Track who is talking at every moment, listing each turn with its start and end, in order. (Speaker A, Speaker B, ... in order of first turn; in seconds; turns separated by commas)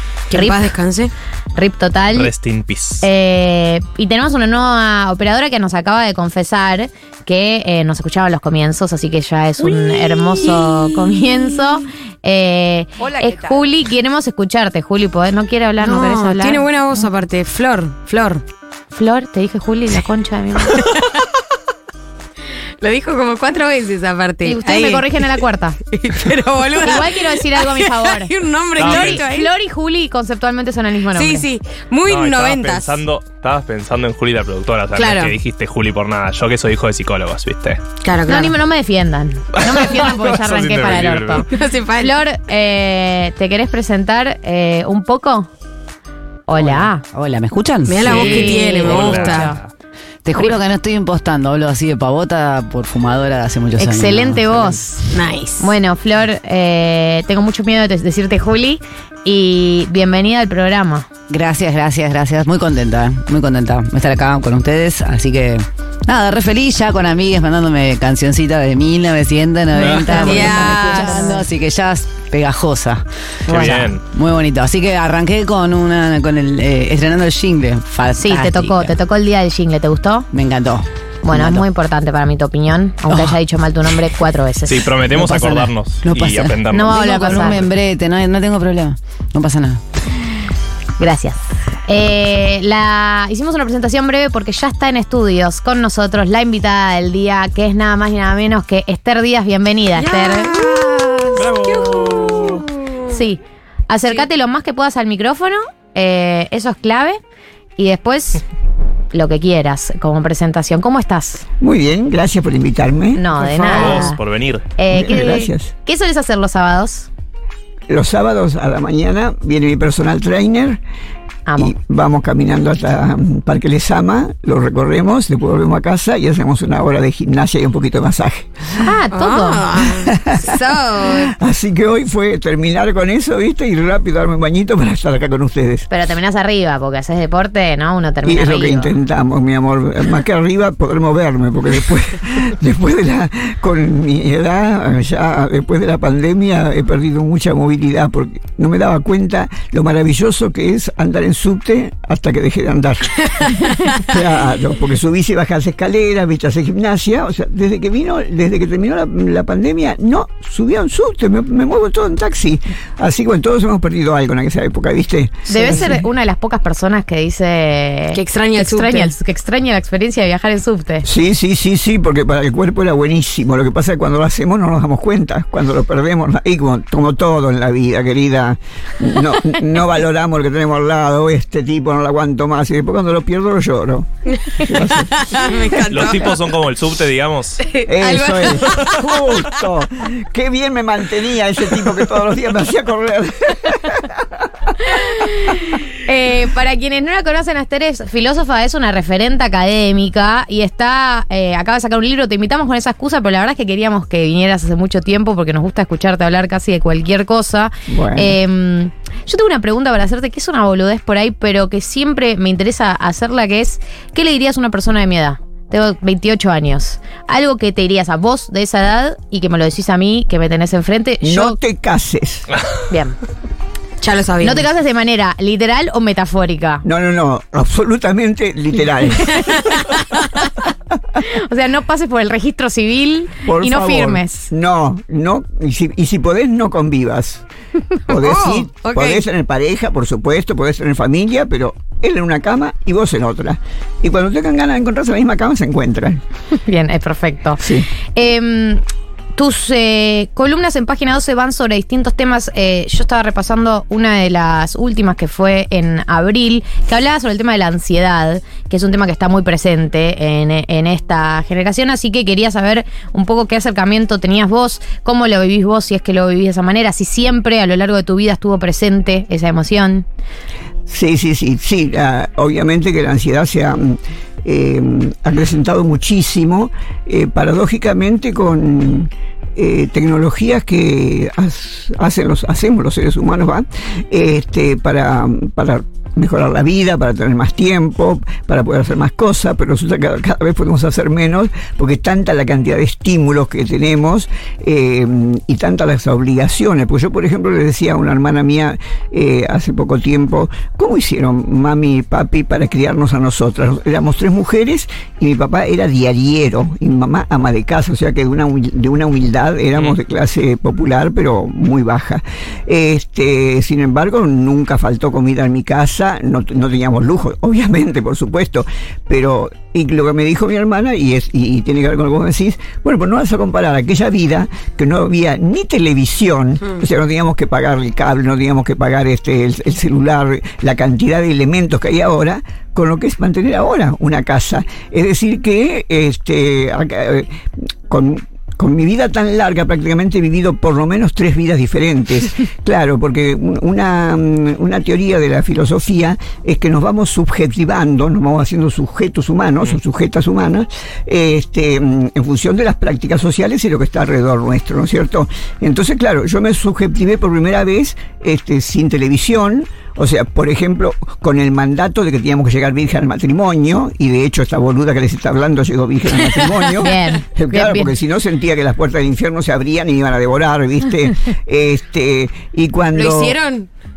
Speaker A: 0.3-1.1, Speaker B: 0.3-0.7, Speaker B: 1.6-2.3, Speaker C: 2.1-3.0, Speaker B: 3.0-16.6, Speaker A: 9.6-11.2, Speaker A: 13.1-13.5, Speaker A: 15.8-18.4, Speaker B: 18.9-20.9, Speaker A: 20.7-21.2, Speaker A: 22.8-25.4, Speaker B: 24.4-25.8, Speaker A: 25.9-29.5, Speaker B: 26.8-31.5, Speaker C: 28.8-29.2, Speaker A: 31.1-33.0, Speaker C: 32.0-37.8, Speaker A: 34.9-35.3, Speaker A: 38.0-38.5, Speaker B: 38.3-45.5, Speaker C: 39.6-41.5, Speaker A: 41.5-42.1, Speaker B: 46.5-47.0, Speaker D: 46.6-48.9, Speaker A: 47.9-49.5, Speaker C: 48.0-49.7, Speaker B: 48.0-49.6, Speaker D: 50.2-54.8, Speaker B: 53.8-61.1, Speaker A: 55.1-55.7, Speaker D: 61.3-79.0, Speaker C: 69.8-70.5, Speaker B: 69.8-71.4, Speaker A: 70.2-71.2, Speaker C: 73.5-74.0, Speaker B: 78.2-80.3, Speaker D: 80.3-81.7, Speaker B: 81.2-84.9, Speaker D: 83.1-83.4, Speaker C: 84.7-87.0, Speaker D: 85.1-89.8, Speaker B: 86.7-87.6, Speaker B: 91.0-101.3, Speaker A: 99.9-103.1, Speaker C: 101.3-102.6, Speaker B: 103.1-107.2, Speaker B: 107.8-108.4, Speaker B: 109.1-111.4, Speaker E: 111.6-113.2, Speaker B: 113.1-114.2, Speaker A: 113.3-114.1, Speaker C: 113.7-114.6, Speaker B: 114.8-117.1, Speaker E: 114.9-115.7, Speaker E: 117.9-120.8, Speaker B: 121.5-121.7, Speaker E: 121.6-128.8, Speaker B: 128.8-129.7, Speaker A: 129.1-131.3, Speaker E: 129.8-135.9, Speaker B: 135.9-138.9, Speaker E: 138.2-166.0, Speaker A: 153.7-154.0, Speaker B: 165.5-171.1, Speaker A: 168.1-169.1, Speaker E: 171.0-185.5, Speaker A: 184.4-186.5, Speaker C: 185.9-187.7, Speaker A: 187.6-189.0, Speaker E: 187.8-195.0, Speaker B: 196.0-221.6, Speaker E: 207.9-208.3, Speaker E: 221.2-222.5, Speaker B: 222.9-223.2, Speaker A: 224.0-224.7, Speaker B: 224.4-226.8, Speaker E: 226.8-230.0, Speaker B: 231.2-234.5, Speaker E: 233.4-237.4, Speaker E: 238.1-246.2, Speaker A: 238.1-239.2, Speaker B: 246.6-248.8, Speaker E: 247.6-247.9, Speaker B: 249.3-270.0, Speaker E: 270.9-373.3, Speaker B: 366.7-367.9, Speaker A: 372.9-373.7